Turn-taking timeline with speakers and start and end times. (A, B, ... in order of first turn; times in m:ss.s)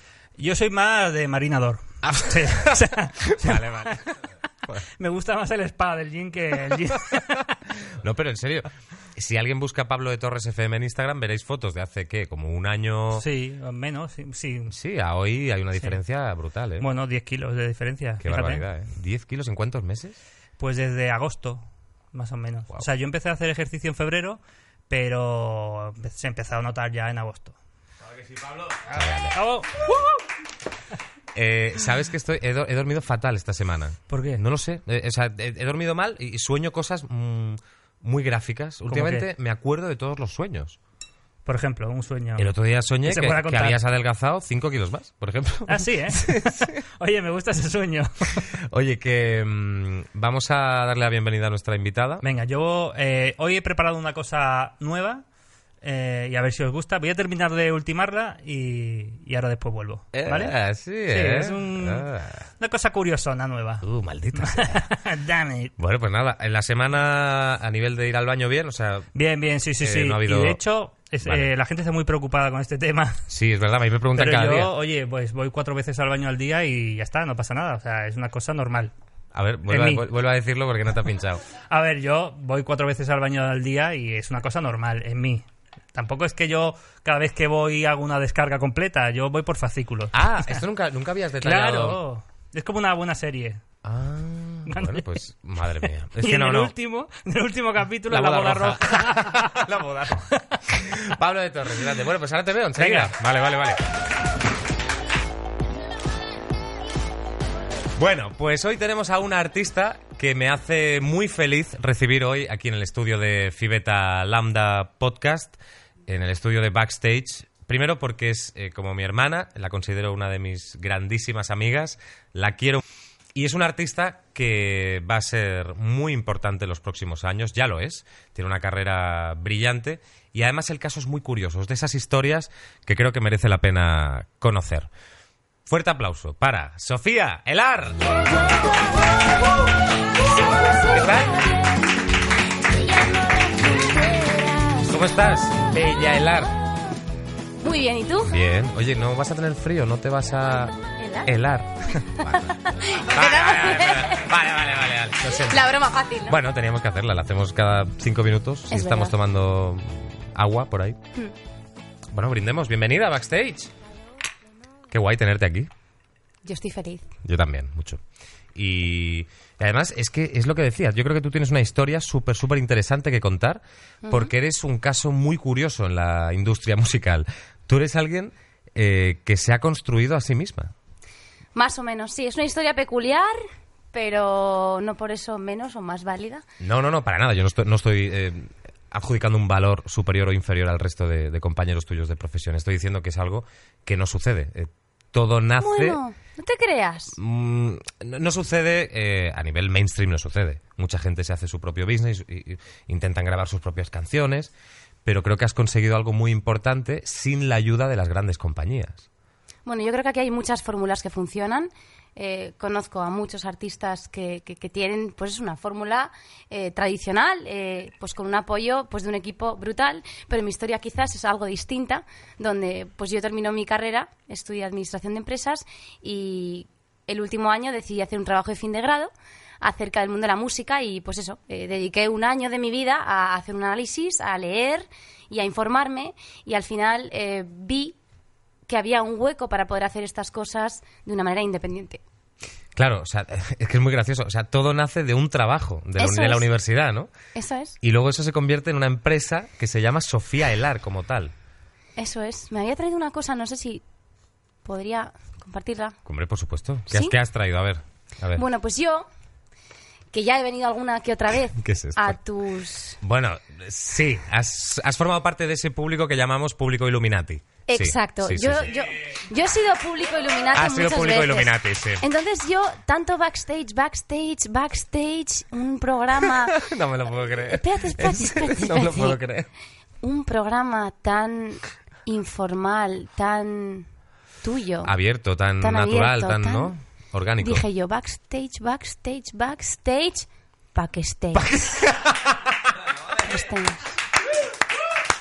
0:00.4-0:04.0 A
0:02.0-0:04.9 B
0:04.9-0:07.6 A
0:07.8-0:13.3 B
0:13.2-0:14.7 A
0:14.7-0:16.9 B
0:16.8-0:18.7 A
0:18.2-0:20.2 B
0:20.6-0:27.6 A
0:28.8-0:30.2 A
0:28.9-0:30.0 B
0:31.3-0:40.8 B
0:34.1-0:34.4 A
0:38.9-0:39.3 A
0:41.5-0:42.5 A
0:42.4-0:46.8 B
0:43.0-0:43.8 A
0:45.7-0:48.5 A
0:48.7-0:52.2 B
0:52.2-0:55.2 A
0:55.8-1:00.5 A
1:00.1-1:02.5 B
1:01.1-1:05.7 A
1:03.8-1:04.8 B
1:05.8-1:09.1 B
1:09.2-1:13.3 A
1:09.8-1:10.6 B
1:11.2-1:11.5 B
1:13.3-1:14.7 B
1:14.2-1:18.9 A
1:19.3-1:21.4 B
1:19.7-1:20.0 A
1:21.7-1:30.6 A
1:30.1-1:32.0 B
1:31.4-1:33.6 A
1:33.8-1:36.7 B
1:34.7-1:35.1 A
1:36.2-1:39.7 A
1:38.1-1:43.9 B
1:42.8-1:43.1 A
1:48.0-2:02.8 B
2:03.4-2:14.9 B
2:15.7-2:18.2 B
2:20.6-2:21.2 C
2:20.8-2:21.5 B
2:22.7-2:24.9 C
2:24.8-2:26.6 B
2:27.6-2:28.4 C
2:28.2-2:41.0 B
2:31.0-2:31.3 C
2:32.2-2:34.3 C
2:35.5-2:36.4 C
2:38.7-2:39.2 C
2:42.1-2:43.7 B
2:44.9-2:45.7 B
2:46.4-2:47.1 C
2:47.2-2:48.0 B
2:48.6-3:00.7 B
2:54.0-2:54.3 C
3:01.6-3:03.4 C
3:03.9-3:06.4 C
3:06.6-3:16.0 B
3:15.6-3:17.2 C
3:17.2-3:24.5 B
3:25.0-3:29.1 B
3:29.7-3:58.0 C
3:58.7-4:02.0 C
4:02.8-4:07.1 B
4:06.0-4:06.5 C
4:07.4-4:07.8 C
4:07.8-4:11.3 B
4:12.0-4:13.8 C
4:14.6-4:16.0 C
4:16.1-4:18.4 B
4:16.9-4:17.2 C
4:18.4-4:19.1 C
4:20.1-4:23.0 C
4:21.6-4:22.2 B
4:23.0-4:28.8 B
4:27.7-4:36.6 C
4:30.5-4:32.0 B
4:36.5-4:39.5 B
4:37.5-4:39.2 C
4:40.0-4:43.9 C
4:44.4-4:44.9 C
4:44.8-4:47.6 B
4:45.6-4:46.7 C
4:47.4-4:51.6 C
4:51.3-4:52.5 B
4:53.2-4:53.9 C